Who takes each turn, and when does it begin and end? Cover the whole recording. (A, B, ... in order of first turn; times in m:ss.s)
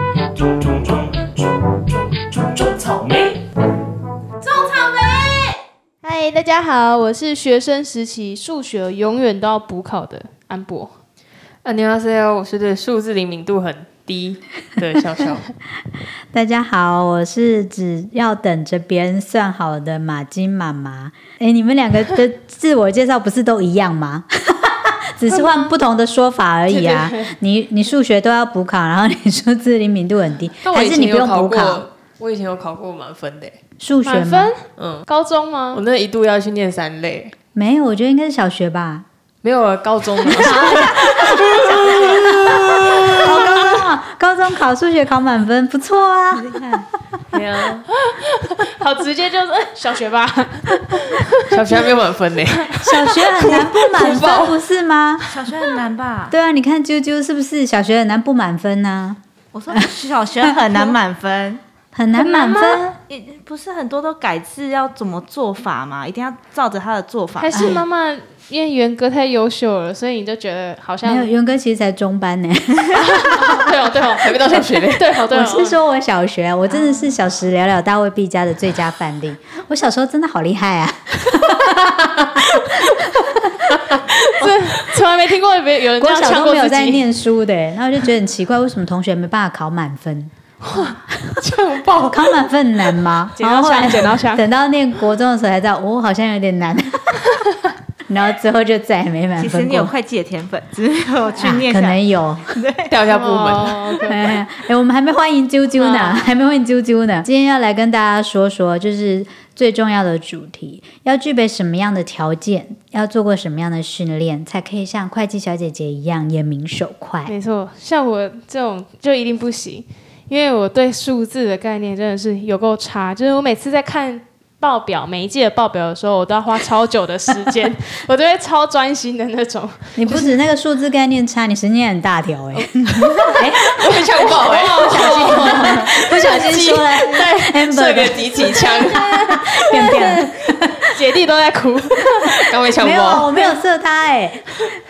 0:02.7-0:03.1 A
0:04.4-0:10.9 B
0:11.6-0:15.5 A
0:16.3-0:31.8 C
0:25.3-0:25.7 B
0:26.7-0:27.4 B
0:30.6-0:33.6 A
0:33.8-0:34.5 C
0:34.0-0:35.8 B
0:34.8-0:35.0 A
0:35.7-0:37.3 A
0:37.6-0:39.0 C
0:39.4-0:43.3 A
0:40.3-0:46.6 C
0:41.5-0:42.2 B
0:46.4-0:46.9 D
0:47.3-0:47.9 A
0:48.1-0:51.9 B
0:51.5-0:54.6 A
0:52.6-0:52.9 B
0:52.8-0:55.3 C
0:55.3-0:56.3 D
0:56.3-0:59.2 C
0:59.5-1:01.6 D
1:01.9-1:02.9 C
1:02.2-1:02.9 B
1:02.9-1:07.7 D
1:07.4-1:11.3 B
1:07.5-1:07.8 C
1:11.0-1:13.5 C
1:12.9-1:15.8 B
1:13.4-1:15.1 A
1:15.3-1:24.5 C
1:24.1-1:27.1 B
1:26.0-1:31.4 C
1:30.6-1:32.3 B
1:32.1-1:37.2 C
1:33.4-1:34.4 B
1:38.1-1:39.9 C
1:39.4-1:43.0 D
1:41.4-1:42.6 C
1:42.9-1:44.1 A
1:43.1-1:44.4 B
1:44.1-1:57.3 C
1:45.8-1:46.3 B
1:57.3-2:10.3 B
2:10.0-2:13.6 C
2:12.6-2:16.2 B
2:13.6-2:19.4 A
2:14.7-2:20.9 C
2:18.3-2:22.5 B
2:22.4-2:23.3 A
2:22.8-2:24.5 C